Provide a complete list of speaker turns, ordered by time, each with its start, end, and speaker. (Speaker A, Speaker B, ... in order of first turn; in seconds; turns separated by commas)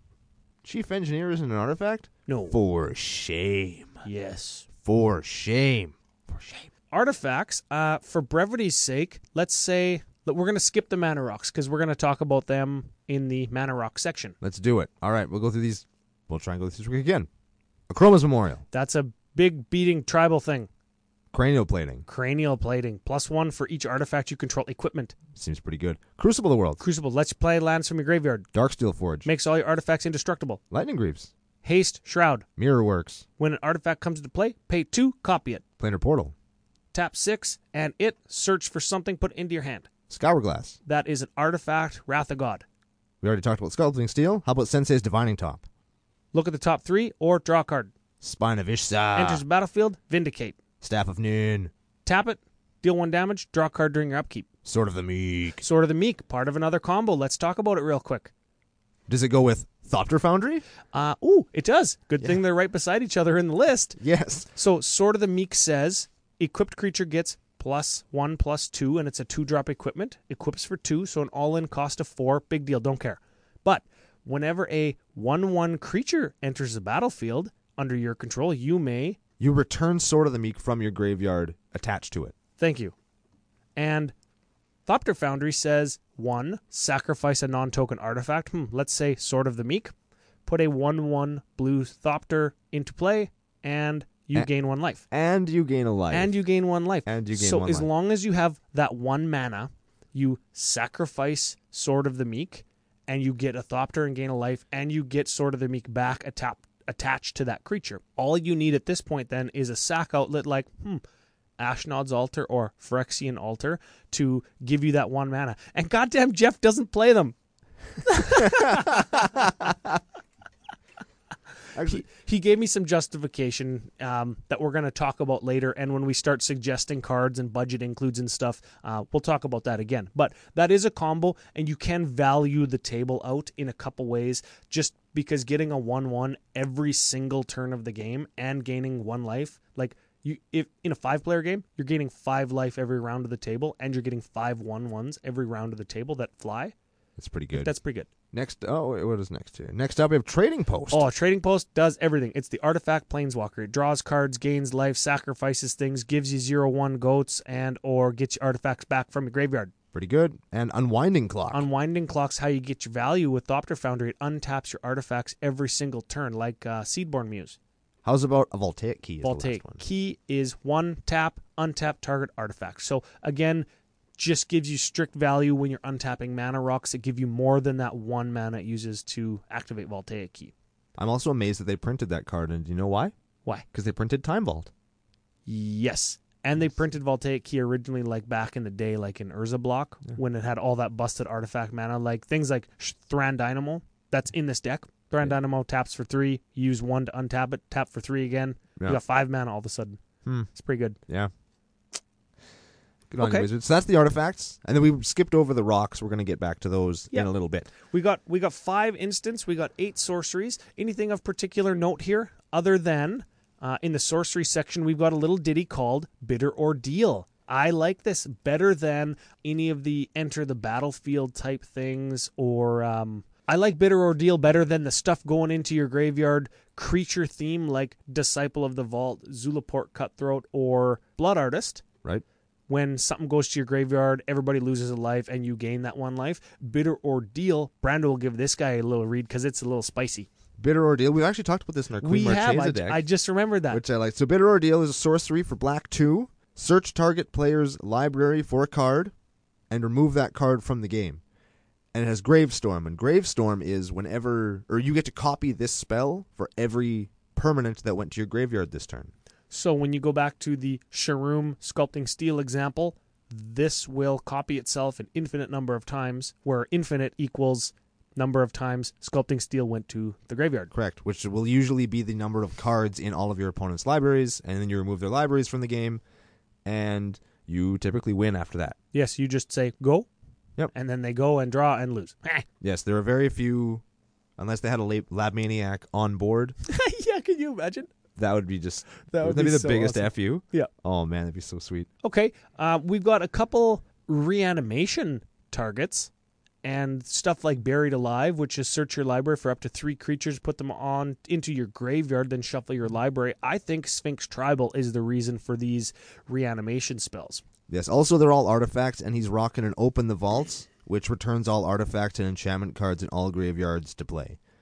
Speaker A: 0.6-4.0, Speaker B: 2.3-2.5, Speaker B: 4.0-4.7, Speaker A: 4.8-6.7, Speaker B: 6.9-14.4, Speaker A: 14.4-17.3, Speaker A: 17.9-18.6, Speaker B: 18.7-20.7, Speaker A: 21.3-22.1, Speaker B: 22.1-25.2, Speaker A: 25.3-26.8, Speaker B: 26.8-28.5, Speaker A: 28.5-29.3, Speaker B: 29.2-30.6, Speaker A: 30.7-31.3, Speaker B: 31.6-32.5, Speaker A: 32.6-33.2, Speaker B: 33.4-35.6, Speaker A: 35.8-36.3, Speaker B: 36.9-39.9, Speaker A: 40.1-40.8, Speaker B: 40.9-42.6, Speaker A: 43.2-45.6, Speaker B: 46.3-47.9, Speaker A: 48.2-49.4, Speaker B: 49.1-50.6, Speaker A: 50.8-51.7, Speaker B: 52.0-54.5, Speaker A: 54.6-55.6, Speaker B: 55.6-58.3, Speaker A: 59.1-60.6, Speaker B: 60.9-64.0, Speaker A: 64.0-64.5, Speaker B: 64.5-79.2, Speaker A: 79.4-82.3, Speaker B: 82.6-82.9, Speaker B: 83.8-84.1, Speaker B: 84.8-89.9, Speaker B: 90.5-95.0, Speaker A: 95.1-96.3, Speaker B: 96.1-111.0, Speaker A: 97.0-97.9, Speaker B: 111.6-117.3, Speaker B: 118.0-119.4, Speaker A: 118.3-120.0, Speaker A: 121.7-122.0, Speaker B: 121.8-146.7, Speaker A: 147.2-147.7, Speaker B: 147.5-148.1, Speaker A: 148.3-151.1, Speaker B: 150.9-159.7, Speaker A: 159.9-161.7, Speaker B: 161.5-167.6, Speaker A: 168.0-169.8, Speaker B: 169.2-173.7, Speaker B: 174.2-180.5, Speaker A: 181.0-183.1, Speaker A: 183.7-184.7, Speaker B: 185.4-200.0, Speaker B: 200.5-201.0, Speaker A: 203.1-207.7, Speaker B: 203.2-203.5, Speaker B: 207.1-231.8, Speaker B: 232.7-240.3, Speaker A: 240.6-243.0, Speaker B: 242.0-243.8, Speaker A: 243.7-249.1, Speaker A: 249.7-251.2, Speaker A: 251.9-259.1, Speaker B: 259.5-270.7, Speaker A: 270.7-276.0, Speaker A: 276.6-278.8, Speaker B: 278.9-280.1, Speaker B: 280.7-282.4, Speaker A: 282.6-283.8, Speaker A: 284.4-286.6, Speaker B: 286.6-287.9, Speaker A: 288.1-291.9, Speaker B: 289.1-290.7, Speaker B: 292.0-296.1, Speaker B: 296.6-307.4, Speaker A: 307.7-314.4